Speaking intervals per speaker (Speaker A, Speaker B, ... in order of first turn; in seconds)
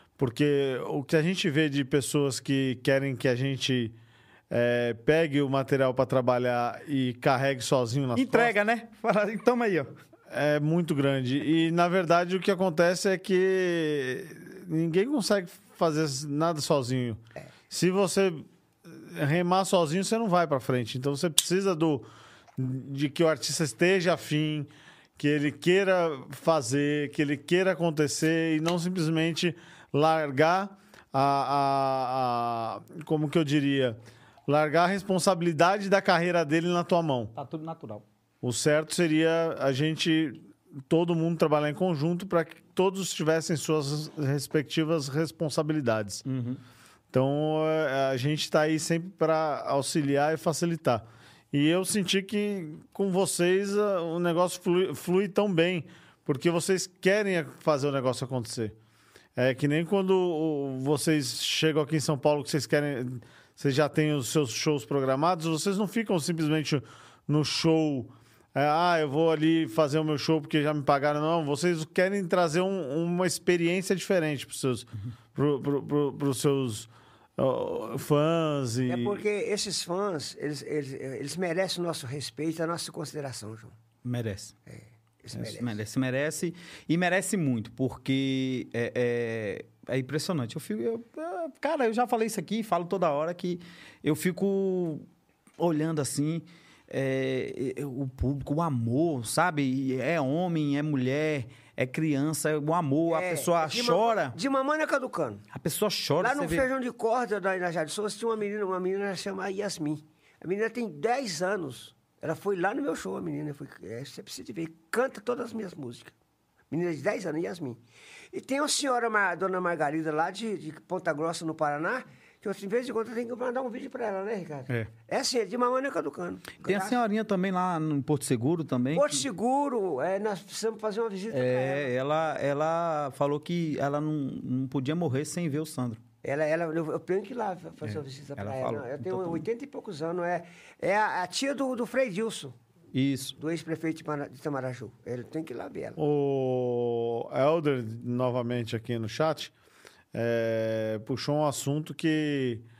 Speaker A: 0.2-4.0, 4.5-8.5, 10.3-37.3, 38.4-46.2, 47.1-58.7, 59.4-79.2, 146.0-149.5, 150.1-152.7
Speaker B: 8.2-9.9, 37.3-38.0, 46.2-46.6, 84.0-84.5, 85.3-95.0, 95.6-104.3, 105.5-106.7, 126.6-129.2, 131.3-136.0, 137.8-139.4, 142.9-143.3
Speaker C: 78.9-83.7, 84.7-85.8, 103.1-105.4, 106.2-116.1, 116.7-127.0, 128.9-131.9, 136.2-142.6, 143.4-146.0